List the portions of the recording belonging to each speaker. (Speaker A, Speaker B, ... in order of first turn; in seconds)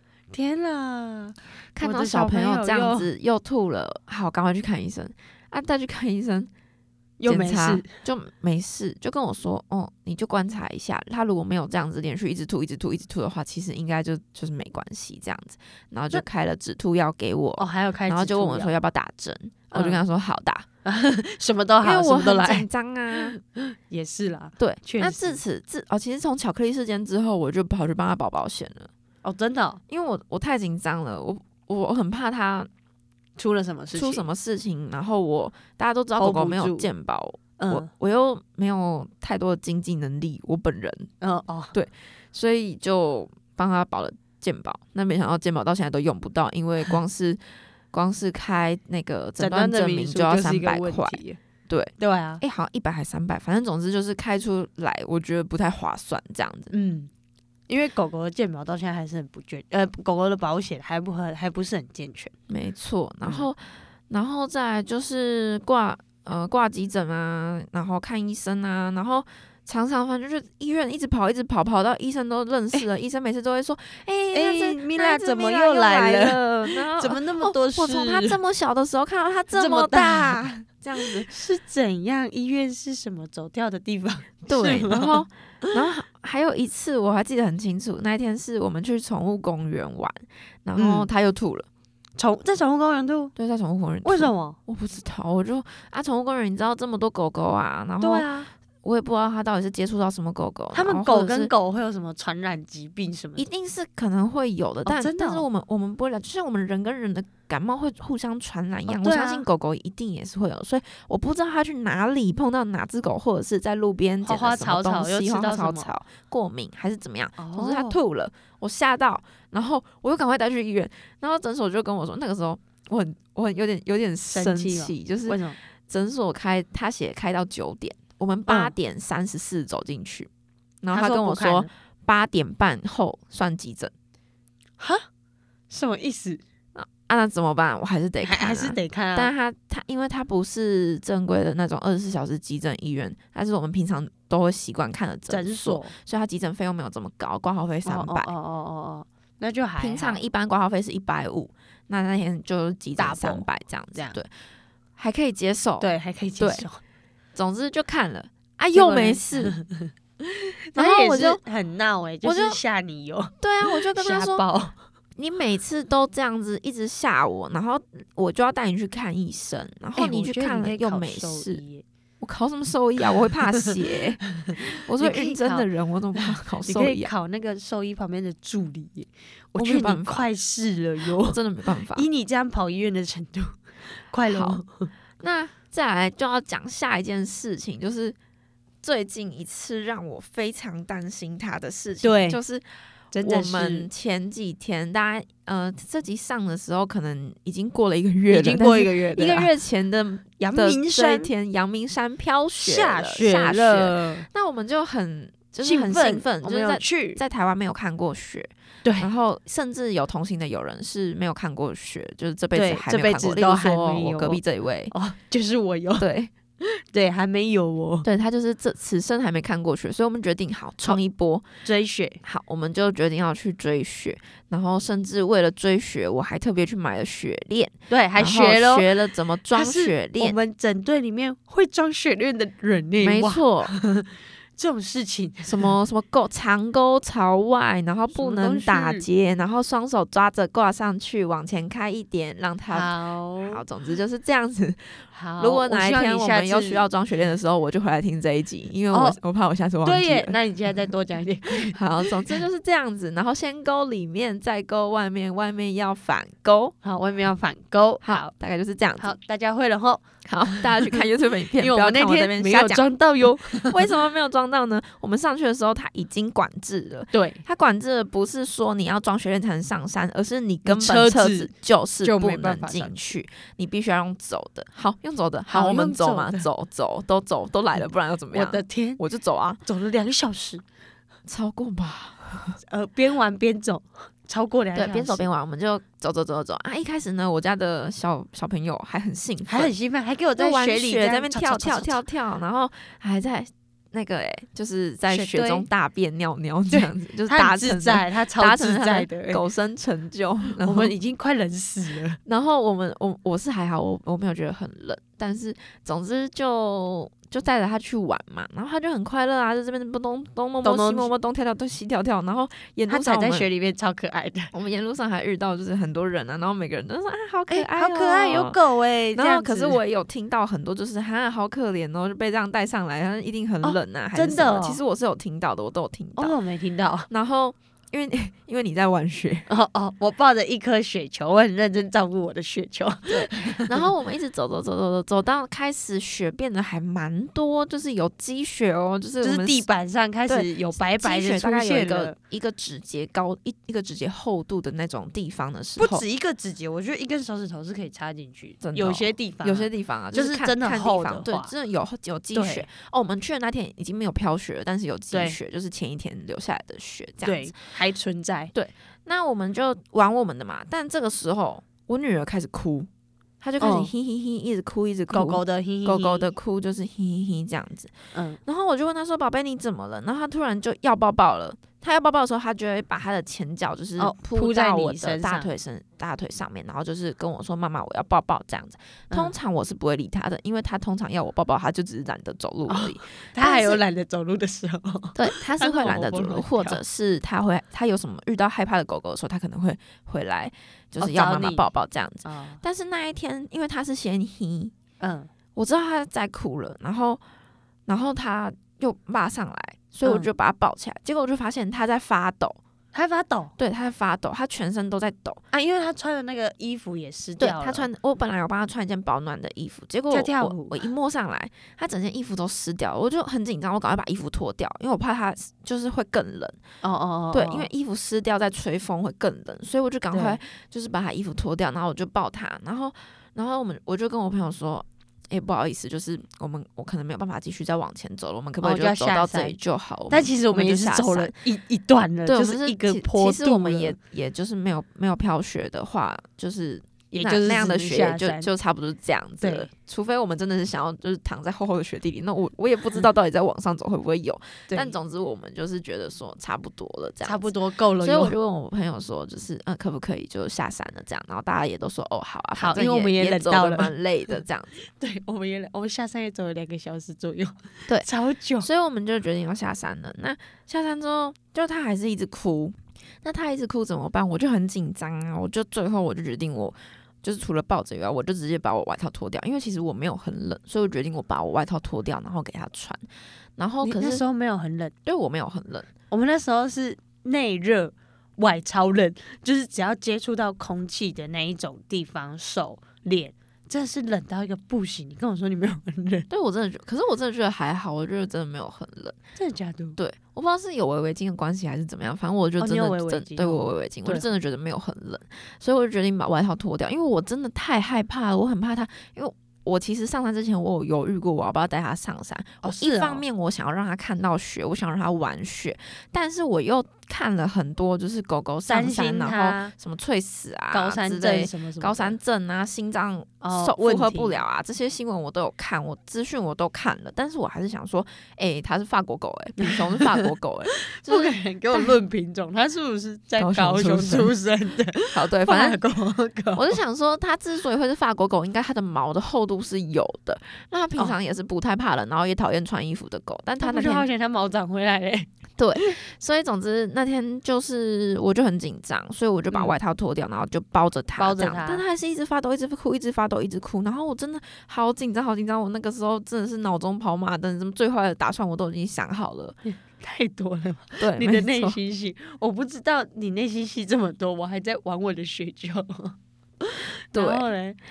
Speaker A: 0.3-3.1, 7.2-7.9, 17.6-18.7, 19.7-20.0, 20.8-25.4, 29.2-29.8, 33.4-34.3, 36.2-36.9, 37.6-37.9, 41.2-41.7, 49.4-51.4, 52.0-52.4, 56.7-57.1, 57.7-62.3, 74.3-78.4, 79.5-80.4, 81.0-85.7, 90.8-91.1, 92.2-93.3, 94.0-94.6, 98.0-98.5, 100.7-103.5, 104.8-105.4, 108.9-109.4, 114.2-115.9, 117.4-118.0, 124.3-125.6, 128.5-128.7, 130.9-131.7, 134.8-135.1, 135.7-136.4, 138.2-139.3, 145.3-145.9, 147.8-150.2, 153.0-154.2, 155.8-156.8, 158.7-159.9, 160.7-164.8, 169.9-171.8, 174.4-175.7, 176.2-181.4, 181.9-184.9, 192.0-192.4, 193.1-193.9, 198.3-199.5, 200.4-201.3, 202.6-204.2, 205.6-207.2, 208.8-209.1, 212.5-214.4, 214.9-216.1, 216.6-218.1, 221.6-222.2, 227.9-235.7, 238.1-239.1, 242.7-243.6, 245.1-246.8, 248.9-249.2, 249.8-252.4, 256.8-258.3, 259.0-261.0, 261.6-263.8, 267.1-267.4, 270.6-271.5, 272.0-272.9, 275.5-276.5, 278.3-279.0, 279.6-280.6, 282.7-285.3, 289.5-292.0, 295.1-295.7, 296.7-299.4, 300.6-302.2, 310.6-311.1, 312.9-314.5, 317.5-319.8, 323.6-324.8, 326.1-327.1, 329.5-333.9, 339.2-342.1, 345.8-351.5, 352.3-352.7, 355.1-355.4, 357.2-358.5, 363.6-363.9, 365.1-366.2, 368.1-368.4, 374.0-375.5, 382.7-386.8, 391.0-391.6, 392.2-392.6, 395.0-395.3, 400.0-400.3, 402.9-403.5, 405.5-407.9, 410.1-410.8, 416.8-417.7, 420.1-420.4, 428.6-429.6, 430.1-434.0, 437.1-438.5, 439.4-439.7, 444.7-444.9, 447.2-448.4, 452.6-453.9, 454.8-458.7, 473.8-474.9, 476.1-486.3, 489.4-490.0, 492.6-494.2, 502.6-503.2, 508.7-509.7, 510.7-512.1, 513.4-514.4, 519.6-526.8, 533.6-535.3, 541.2-541.8, 549.6-556.1, 556.7-557.8
Speaker B: 1.8-6.5, 7.3-20.6, 21.8-23.4, 24.6-28.9, 29.9-32.7, 33.9-41.1, 41.7-47.4, 47.9-56.7, 62.5-81.3, 84.5-91.7, 93.3-98.3, 98.8-101.5, 103.4-130.3, 130.8-133.9, 136.7-148.3, 149.8-154.3, 155.0-155.9, 157.3-159.6, 160.7-161.4, 162.2-162.6, 163.4-164.4, 165.2-171.6, 172.2-177.1, 179.6-180.2, 181.2-182.1, 184.3-184.6, 185.2-188.2, 188.8-192.6, 193.2-214.9, 216.0-216.3, 218.0-221.5, 222.2-230.4, 233.0-233.7, 235.4-250.4, 251.6-256.7, 258.0-259.1, 260.2-279.6, 281.3-282.6, 284.7-289.7, 290.4-300.9, 302.2-313.5, 314.5-318.6, 319.1-326.4, 327.1-329.5, 333.1-339.6, 340.3-346.0, 348.6-357.6, 358.5-362.9, 363.4-383.8, 385.1-394.7, 395.6-397.2, 397.9-402.6, 403.6-405.4, 407.4-416.6, 417.3-431.4, 432.3-454.7, 458.6-473.0, 473.6-474.2, 475.0-475.9, 486.3-489.2, 490.0-522.0, 523.4-524.3, 525.1-525.8, 526.5-534.0, 535.6-549.6, 551.0-551.8, 557.1-557.5